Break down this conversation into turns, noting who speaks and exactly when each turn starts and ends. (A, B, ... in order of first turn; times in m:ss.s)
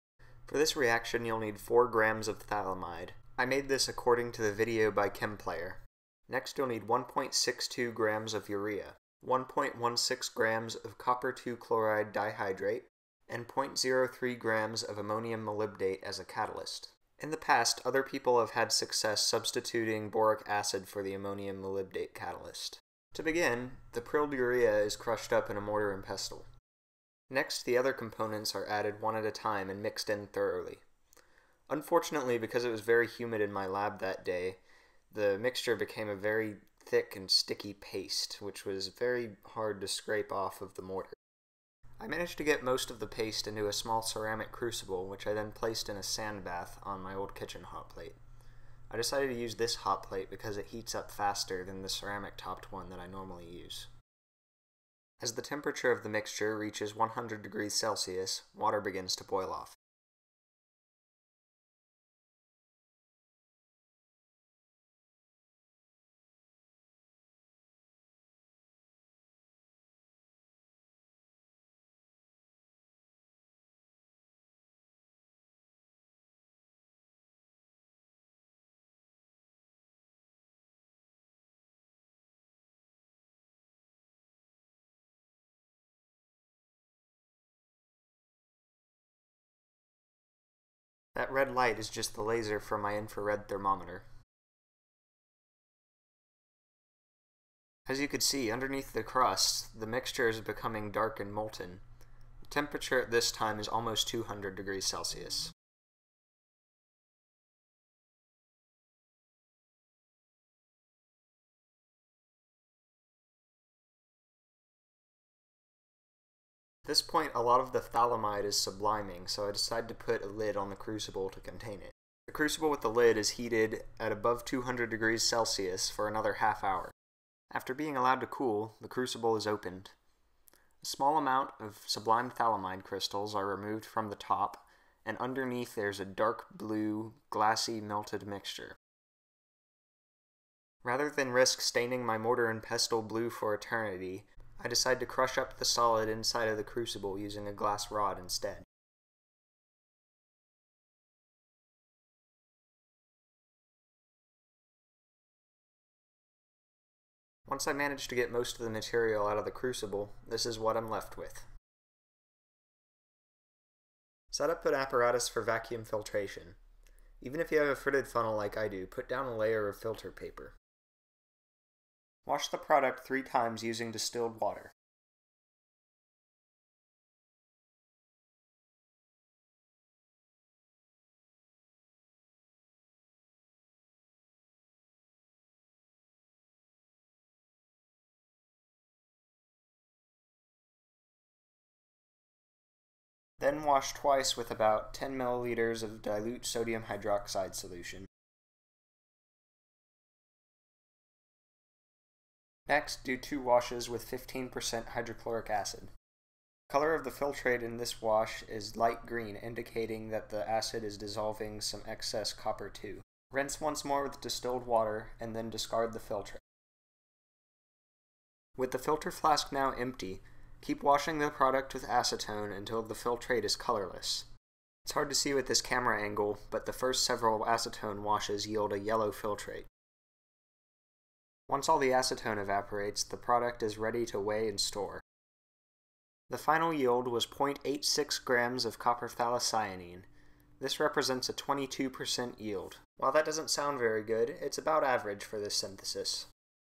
0:00.5-0:26.5 A
0:27.3-0:30.8 A
0:31.7-0:34.6 A
0:35.1-0:41.1 A
0:42.0-0:48.2 A
0:48.9-0:53.9 A
0:55.2-0:59.8 A
1:31.1-1:34.0 A
1:37.8-1:41.8 A
1:42.5-1:45.5 A
1:56.8-2:06.9 A
2:07.5-2:09.9 A
2:10.8-2:18.8 A
2:20.8-2:28.6 A
2:37.5-2:41.5 A
2:44.3-2:46.6 A
2:47.2-2:50.5 A
2:52.2-2:54.7 A
3:13.4-3:18.1 A
3:22.7-3:25.9 A
3:26.7-3:36.4 A
3:38.6-3:44.3 A
3:44.8-3:49.7 A
3:51.5-3:55.0 A
3:56.3-4:00.1 A
4:00.6-4:06.3 A